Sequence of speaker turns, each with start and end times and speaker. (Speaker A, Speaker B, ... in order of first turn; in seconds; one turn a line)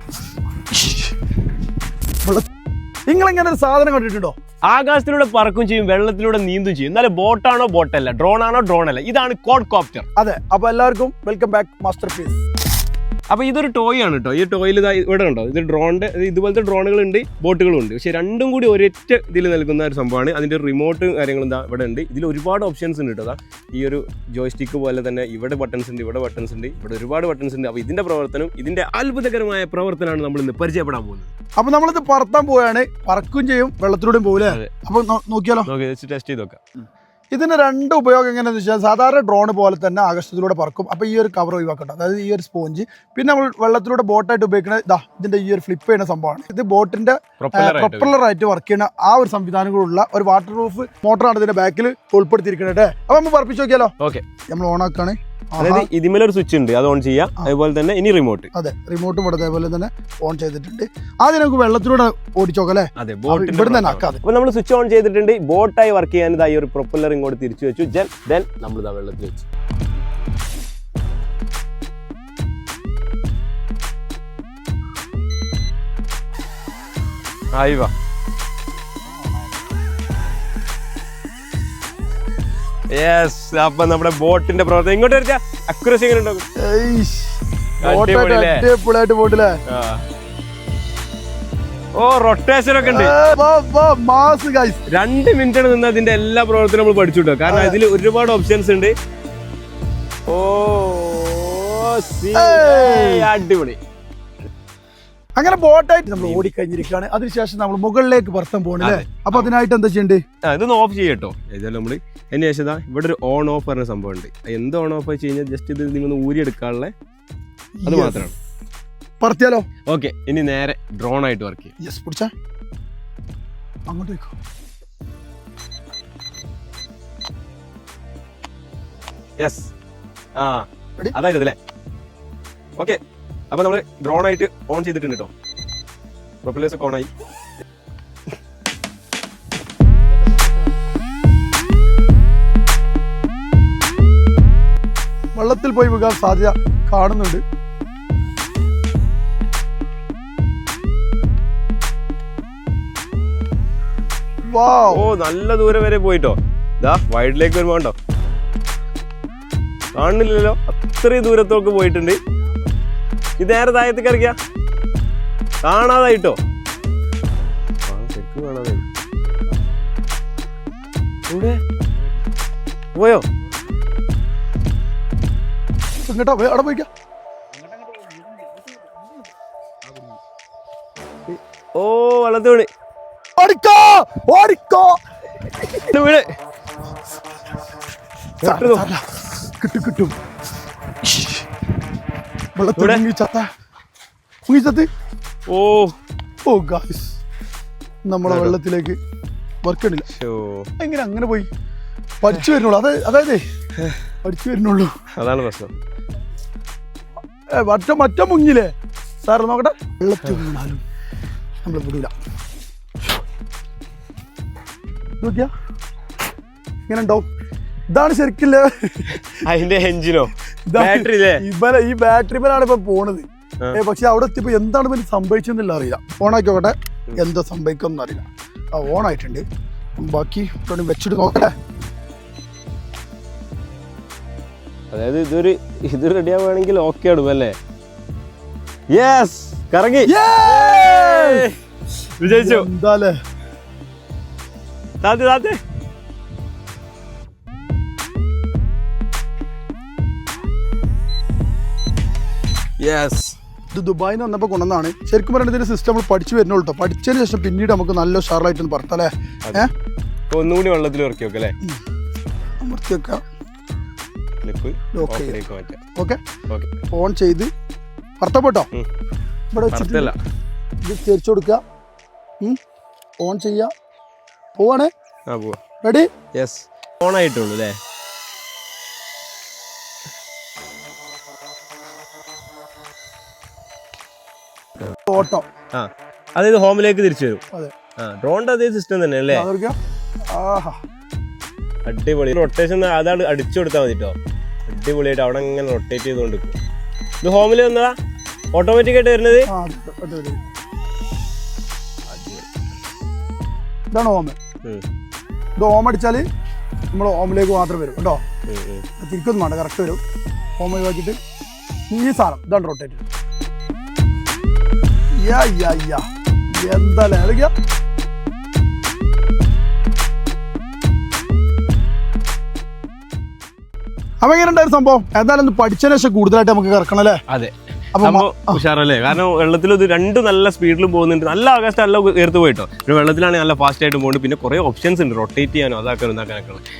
Speaker A: 0.7-1.1
Speaker A: 3.1-4.3
Speaker B: 4.7-10.1
Speaker A: 10.2-12.4
Speaker B: 13.3-31.3
Speaker A: 31.6-35.7
Speaker B: 35.6-36.6
Speaker A: 37.3-53.9
Speaker B: 47.4-48.1
Speaker A: 54.5-55.9
Speaker B: 55.6-58.5
Speaker A: 58.5-64.2
Speaker B: 63.0-69.4
Speaker B: 77.5-77.9
Speaker B: 82.9-86.4
Speaker A: 86.6-89.6
Speaker B: 87.8-88.7
Speaker B: 89.7-90.0
Speaker B: 92.0-93.2
Speaker A: 92.8-94.8
Speaker B: 94.9-98.9
Speaker A: 97.5-97.8
Speaker B: 100.3-103.8
Speaker A: 102.3-103.3
Speaker A: 105.4-110.2
Speaker B: 106.2-106.5
Speaker B: 108.8-109.5
Speaker B: 110.4-116.9
Speaker A: 117.8-118.2
Speaker B: 117.8-118.3
Speaker A: 119.2-119.7
Speaker B: 119.9-121.7
Speaker A: 121.8-122.3
Speaker A: 123.9-124.3
Speaker B: 129.4-129.7
Speaker B: 130.3-131.6
Speaker B: 133.5-135.3
Speaker B: 136.4-137.1
Speaker A: 145.3-147.4
Speaker A: 154.5-155.1
Speaker B: 154.9-157.9
Speaker B: 159.9-162.2
Speaker B: 163.4-164.3
Speaker B: 165.6-166.4
Speaker B: 167.9-168.8
Speaker B: 171.3-171.6
Speaker B: 172.9-173.2
Speaker A: 176.0-176.9
Speaker B: 181.3-182.7
Speaker A: 183.4-185.0
Speaker B: 185.7-186.3
Speaker B: 188.4-188.9
Speaker A: 188.4-190.1
Speaker A: 191.1-191.4
Speaker A: 192.6-193.5
Speaker B: 192.8-193.0
Speaker A: 194.5-194.9
Speaker B: 195.5-195.9
Speaker A: 196.4-197.2
Speaker A: 198.1-198.9
Speaker B: 198.2-198.6
Speaker A: 199.6-200.1
Speaker B: 200.1-200.7
Speaker A: 200.8-201.5
Speaker A: 202.2-203.4
Speaker A: 204.2-204.9
Speaker B: 205.2-205.7
Speaker A: 207.5-208.7
Speaker A: 209.2-210.8
Speaker A: 211.6-212.1
Speaker A: 215.2-215.5
Speaker A: 216.9-217.2
Speaker A: 217.9-219.3
Speaker B: 219.3-221.4
Speaker A: 220.7-229.4
Speaker A: 230.0-231.5
Speaker B: 234.9-237.6
Speaker B: 238.9-241.5
Speaker A: 240.1-241.5
Speaker B: 242.2-242.7
Speaker A: 242.2-243.2
Speaker B: 245.0-245.6
Speaker B: 252.8-253.3
Speaker A: 253.7-259.7
Speaker B: 260.3-261.6
Speaker A: 262.6-263.2
Speaker B: 264.4-265.8
Speaker A: 264.9-265.4
Speaker A: 266.9-267.5
Speaker A: 268.2-268.7
Speaker A: 269.5-270.1
Speaker B: 269.7-270.1
Speaker A: 270.8-271.6
Speaker A: 273.2-273.7
Speaker A: 274.6-274.9
Speaker B: 275.3-275.6
Speaker A: 275.8-276.1
Speaker B: 276.3-277.8
Speaker A: 285.1-285.4
Speaker B: 285.7-287.4
Speaker B: 288.0-289.5
Speaker A: 289.3-289.8
Speaker A: 290.3-290.8
Speaker B: 291.9-294.1
Speaker B: 294.7-296.5
Speaker B: 297.2-297.9
Speaker B: 298.5-299.5
Speaker A: 299.5-300.4
Speaker B: 302.1-302.5
Speaker A: 303.9-304.4
Speaker A: 305.6-306.2
Speaker A: 306.9-308.2
Speaker B: 308.5-308.8
Speaker A: 309.0-310.0
Speaker A: 310.6-311.2
Speaker A: 311.9-313.0
Speaker A: 315.2-316.0
Speaker A: 316.6-317.5
Speaker A: 324.2-327.2
Speaker B: 327.3-336.6
Speaker A: 327.9-328.6